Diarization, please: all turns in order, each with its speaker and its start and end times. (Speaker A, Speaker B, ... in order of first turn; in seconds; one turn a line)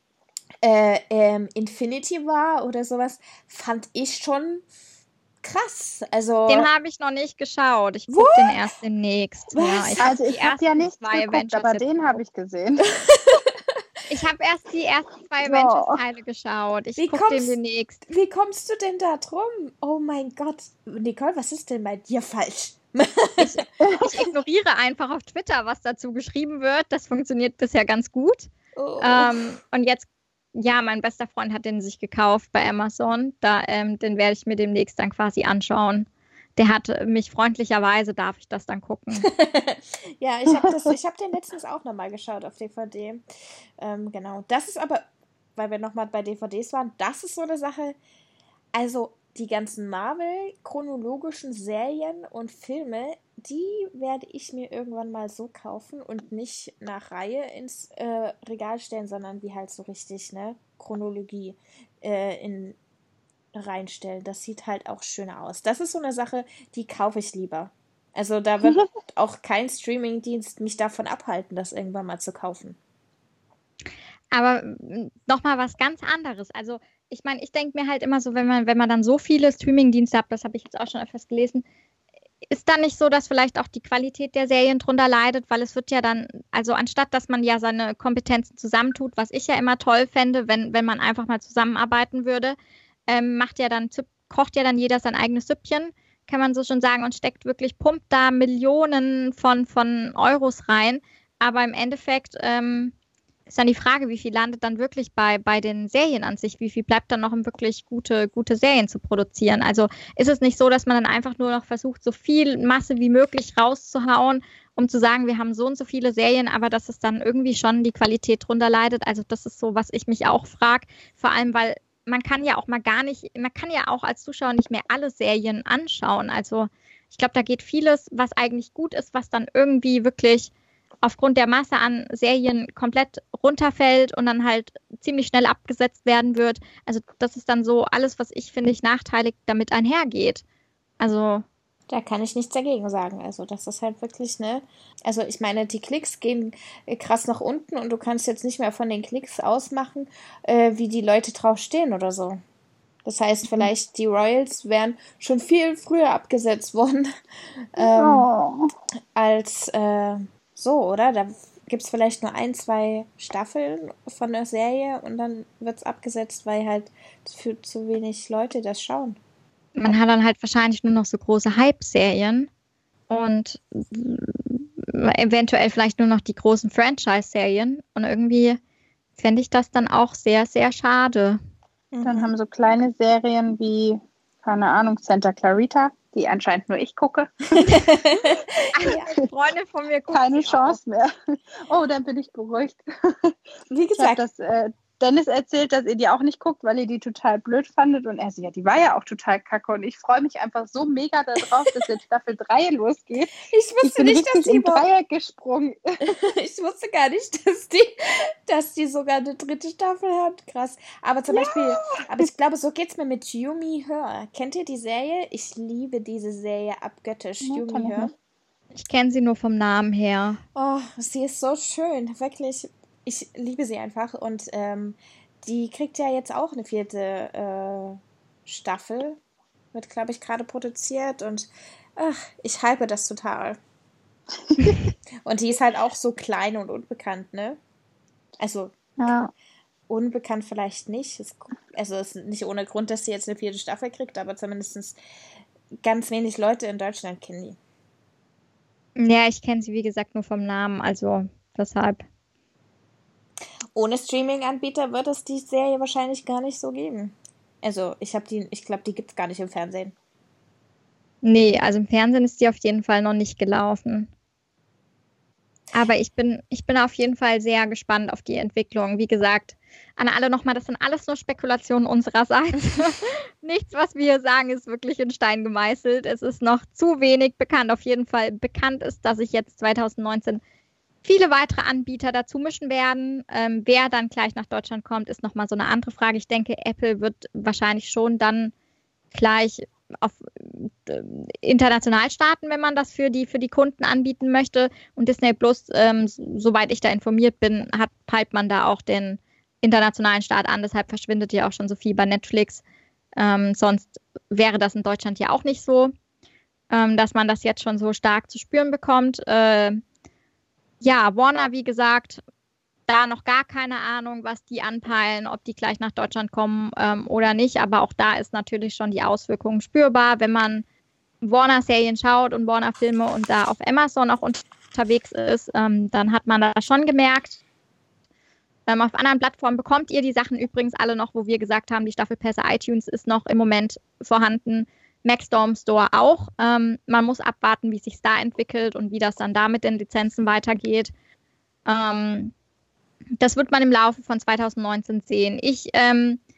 Speaker A: 0.6-4.6
Speaker A: 5.4-6.7
Speaker B: 6.5-12.0
Speaker A: 8.1-8.6
Speaker A: 9.5-10.1
Speaker C: 10.0-12.9
Speaker A: 12.8-13.5
Speaker B: 14.1-18.0
Speaker C: 15.4-16.0
Speaker A: 17.0-23.7
Speaker B: 23.4-39.3
Speaker A: 28.8-29.5
Speaker A: 39.2-43.2
Speaker C: 40.5-40.9
Speaker A: 43.8-48.0
Speaker A: 48.7-62.8
Speaker A: 63.5-72.8
Speaker B: 74.3-81.6
Speaker B: 82.5-92.5
Speaker B: 93.1-102.9
Speaker B: 103.5-130.5
Speaker B: 131.0-140.4
Speaker B: 141.0-141.4
Speaker A: 141.9-152.4
Speaker A: 153.0-158.2
Speaker C: 157.8-158.7
Speaker A: 159.1-169.2
Speaker B: 169.8-172.5
Speaker B: 173.1-178.6
Speaker B: 179.2-181.4
Speaker A: 181.9-182.3
Speaker C: 182.0-187.9
Speaker A: 187.6-189.1
Speaker B: 188.7-190.8
Speaker C: 190.1-191.1
Speaker C: 191.7-193.3
Speaker A: 193.7-194.2
Speaker C: 193.9-206.1
Speaker A: 203.5-204.8
Speaker A: 206.1-218.1
Speaker C: 211.3-212.2
Speaker C: 217.4-218.1
Speaker B: 218.7-220.4
Speaker A: 220.5-229.2
Speaker A: 229.7-233.6
Speaker A: 235.2-237.6
Speaker A: 238.4-238.7
Speaker C: 239.0-239.3
Speaker A: 239.9-245.0
Speaker A: 245.8-247.6
Speaker B: 249.0-252.0
Speaker A: 253.7-259.9
Speaker B: 261.2-264.1
Speaker B: 265.7-280.4
Speaker B: 281.0-288.5
Speaker B: 289.1-302.6
Speaker B: 303.2-305.9
Speaker B: 306.7-309.8
Speaker B: 310.8-312.2
Speaker B: 312.9-320.6
Speaker B: 321.2-327.4
Speaker B: 328.7-340.9
Speaker B: 341.6-342.3
Speaker B: 343.2-346.2